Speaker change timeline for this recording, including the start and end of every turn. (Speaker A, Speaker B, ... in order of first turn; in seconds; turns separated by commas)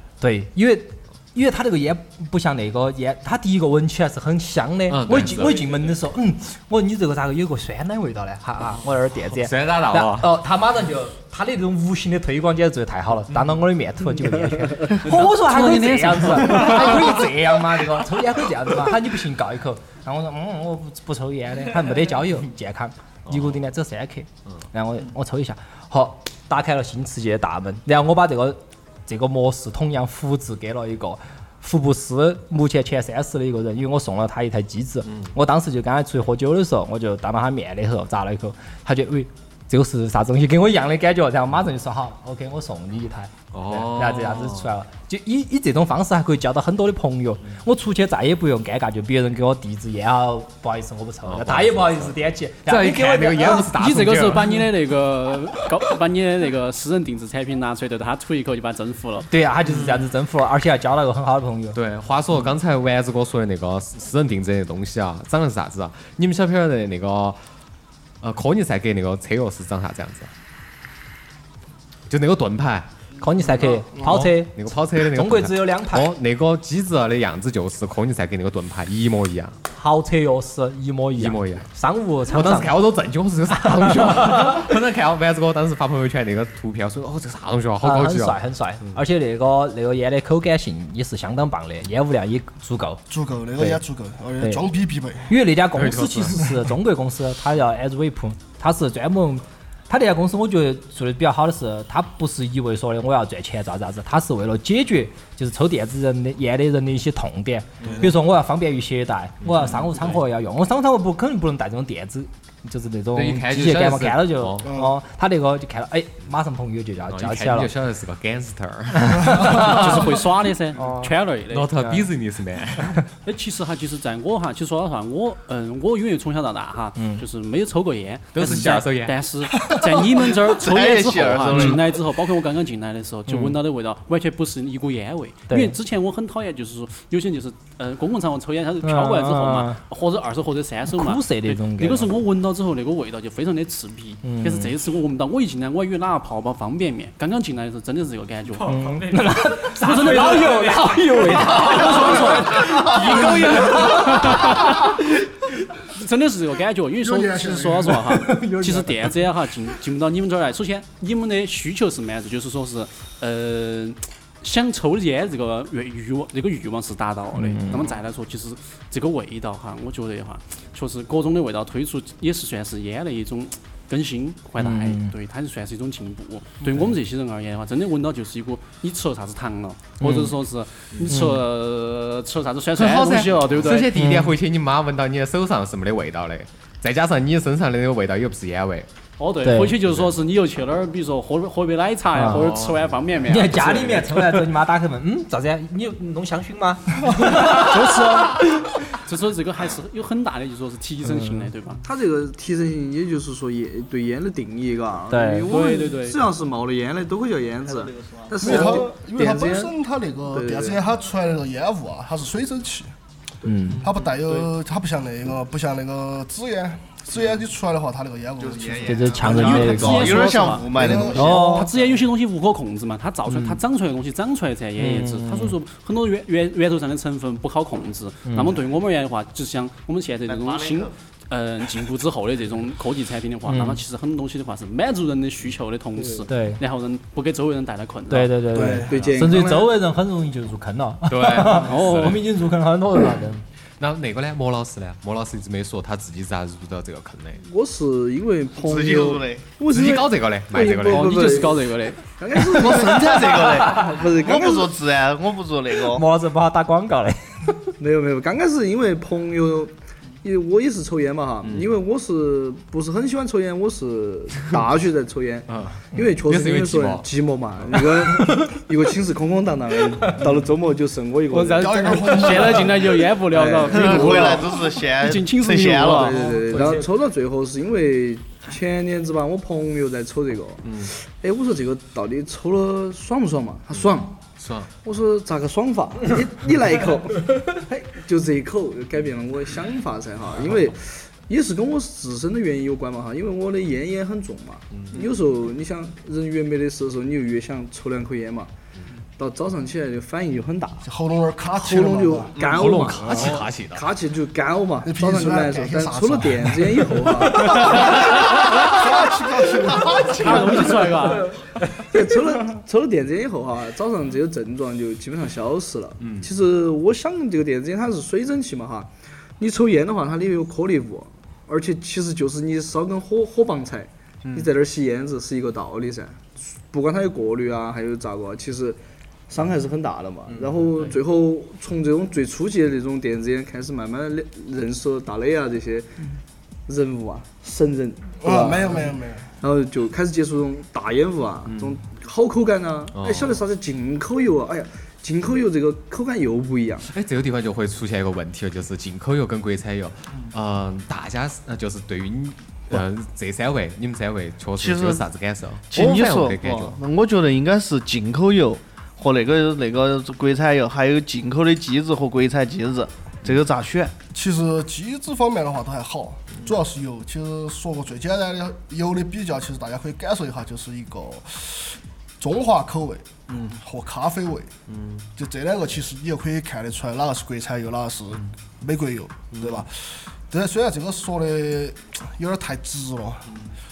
Speaker A: 0.2-53.8, Speaker B: 4.9-5.7, Speaker B: 9.2-10.3, Speaker B: 13.3-13.6, Speaker C: 15.0-17.0, Speaker B: 23.3-23.6, Speaker B: 35.0-35.4, Speaker B: 43.5-44.8, Speaker B: 51.2-54.6, Speaker C: 53.4-59.3, Speaker A: 59.3-61.8, Speaker B: 61.7-67.4, Speaker B: 68.2-70.3, Speaker B: 72.1-72.9, Speaker A: 73.2-76.1, Speaker B: 73.6-79.6, Speaker A: 79.7-82.8, Speaker B: 81.2-81.7, Speaker B: 82.3-89.0, Speaker A: 83.6-84.6, Speaker A: 87.8-93.0, Speaker D: 93.1-95.3, Speaker A: 94.4-94.7, Speaker A: 95.3-117.7, Speaker B: 95.7-96.7, Speaker B: 107.8-108.1, Speaker B: 109.4-110.2, Speaker B: 113.1-114.8, Speaker D: 114.6-114.9, Speaker B: 117.1-120.3, Speaker A: 119.0-120.0, Speaker C: 119.5-121.8, Speaker A: 120.8-121.1, Speaker B: 121.5-123.0, Speaker C: 123.2-155.1, Speaker A: 127.0-127.2, Speaker B: 128.3-129.2, Speaker D: 129.6-130.0, Speaker E: 130.4-131.8, Speaker A: 133.3-133.5, Speaker A: 135.5-135.8, Speaker A: 138.8-139.8, Speaker A: 140.9-142.1, Speaker A: 144.2-144.7, Speaker A: 148.6-154.4, Speaker C: 155.9-183.9, Speaker D: 157.0-158.1, Speaker A: 158.1-159.1, Speaker A: 167.3-167.9, Speaker A: 174.6-175.1, Speaker A: 180.0-180.3, Speaker B: 180.9-181.3, Speaker A: 181.1-181.4, Speaker B: 182.7-188.9, Speaker A: 183.9-184.3, Speaker C: 189.2-194.2, Speaker A: 189.4-189.8, Speaker B: 189.8-190.1, Speaker A: 192.1-192.5, Speaker B: 192.3-194.0, Speaker A: 193.3-198.2, Speaker C: 197.3-201.8, Speaker A: 201.0-201.5, Speaker F: 201.8-209.7, Speaker A: 205.1-205.5, Speaker C: 205.5-206.2, Speaker E: 207.7-208.6, Speaker D: 208.4-212.9, Speaker F: 210.3-210.8, Speaker A: 213.4-213.8, Speaker D: 213.8-219.8, Speaker C: 214.2-214.5, Speaker E: 218.4-222.0, Speaker A: 218.8-220.3, Speaker C: 219.5-239.3, Speaker D: 220.7-221.5, Speaker A: 220.8-221.7, Speaker A: 223.3-223.6, Speaker A: 224.8-225.5, Speaker A: 228.2-228.6, Speaker E: 230.3-230.9, Speaker A: 233.4-233.8, Speaker F: 236.0-236.2, Speaker A: 236.3-236.6, Speaker A: 238.1-243.4, Speaker D: 238.5-238.9, Speaker F: 238.6-239.7, Speaker B: 241.1-242.2, Speaker C: 241.5-242.2, Speaker B: 243.8-247.4, Speaker F: 247.4-254.7, Speaker E: 248.6-249.5, Speaker B: 249.7-251.5, Speaker C: 250.9-252.0, Speaker E: 252.5-256.0, Speaker A: 253.6-253.9, Speaker A: 255.9-257.7, Speaker F: 257.8-272.7, Speaker B: 265.5-267.1, Speaker B: 267.6-268.0, Speaker C: 271.3-276.9, Speaker D: 271.6-273.1, Speaker F: 273.2-274.6, Speaker E: 273.7-276.2, Speaker F: 275.9-284.3, Speaker B: 280.6-280.9, Speaker B: 283.7-284.7, Speaker F: 284.8-298.5, Speaker B: 294.7-295.0, Speaker F: 299.2-300.9, Speaker D: 300.8-302.4, Speaker F: 301.5-308.1, Speaker E: 302.4-302.7, Speaker B: 302.4-303.9, Speaker D: 304.8-310.9, Speaker C: 310.1-311.3, Speaker F: 310.3-311.3, Speaker F: 311.9-328.8, Speaker B: 316.0-316.3, Speaker F: 329.3-335.9, Speaker B: 330.3-330.8, Speaker F: 336.7-346.9, Speaker D: 338.2-339.3, Speaker B: 341.4-341.8, Speaker B: 342.9-343.4, Speaker B: 346.9-356.8, Speaker E: 354.6-355.1, Speaker E: 355.7-363.9, Speaker D: 364.1-374.5, Speaker E: 373.3-373.6, Speaker B: 374.7-375.0, Speaker D: 375.1-383.3